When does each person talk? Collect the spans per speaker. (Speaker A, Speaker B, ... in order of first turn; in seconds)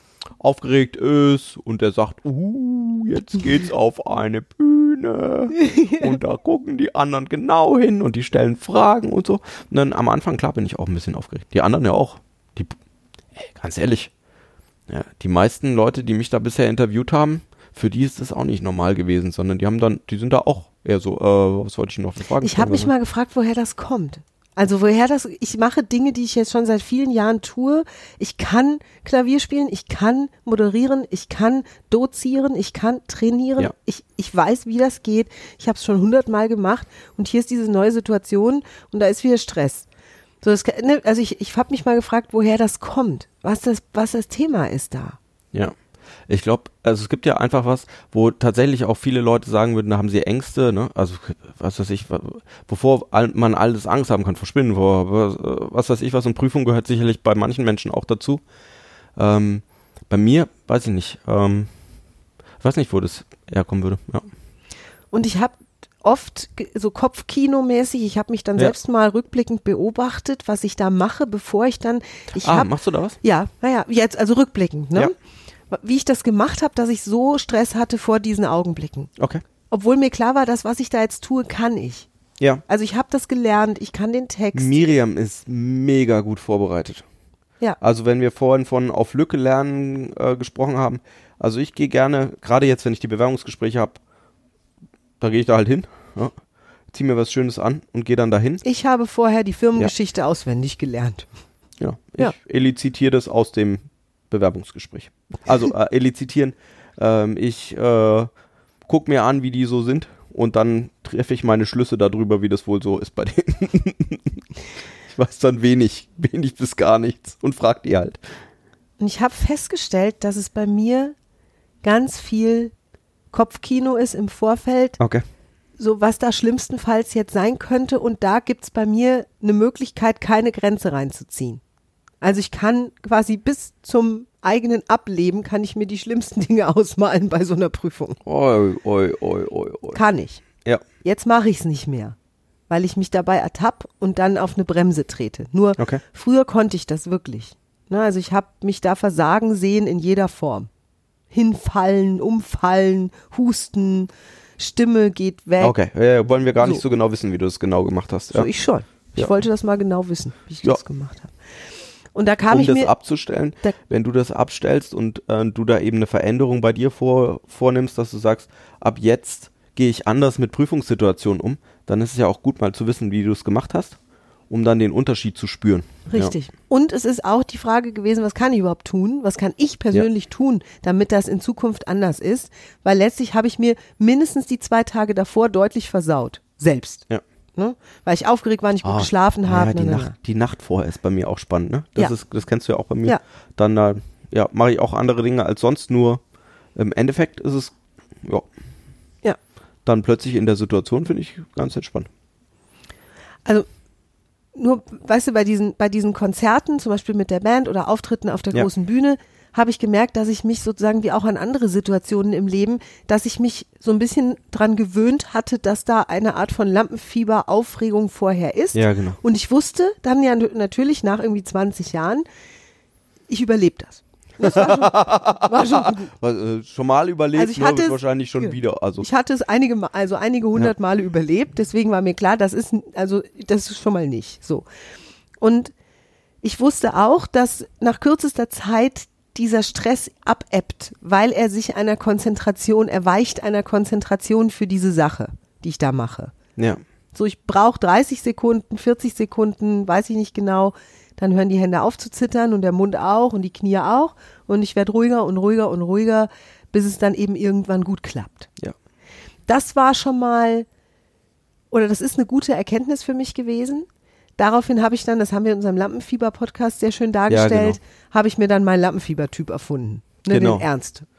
Speaker A: 0.4-12.8, 13.4-14.1, 14.9-22.9, 46.3-58.4, 59.2-61.7, 62.6-64.3, 72.4-73.2, 79.2-79.4, 84.5-87.0, 87.8-94.0, 95.2-96.3, 96.9-98.6, 101.8-108.3, 108.9-114.4, 115.1-118.2, 125.0-125.2, 138.2-140.0, 155.6-158.5, 162.5-174.0, 174.5-176.3, 188.8-196.2, 196.8-198.5, 199.8-202.1, 218.7-219.2, 224.4-229.1, 267.3-267.8, 270.3-270.7
Speaker B: 5.5-6.1, 22.4-39.9, 40.4-45.2, 65.1-75.1, 75.7-79.1, 79.7-82.1, 82.7-84.9, 98.6-101.3, 119.0-121.2, 121.8-122.7, 123.3-125.0, 125.8-131.6, 132.2-138.2, 139.9-140.4, 141.0-142.2, 142.7-150.7, 151.3-155.8, 158.3-161.3, 162.2-162.9, 176.1-190.2, 204.6-222.2, 223.3-226.1, 227.3-234.7, 235.4-235.7, 236.4-246.3, 247.1-258.5, 259.5-260.7, 261.7-263.9, 264.4-271.1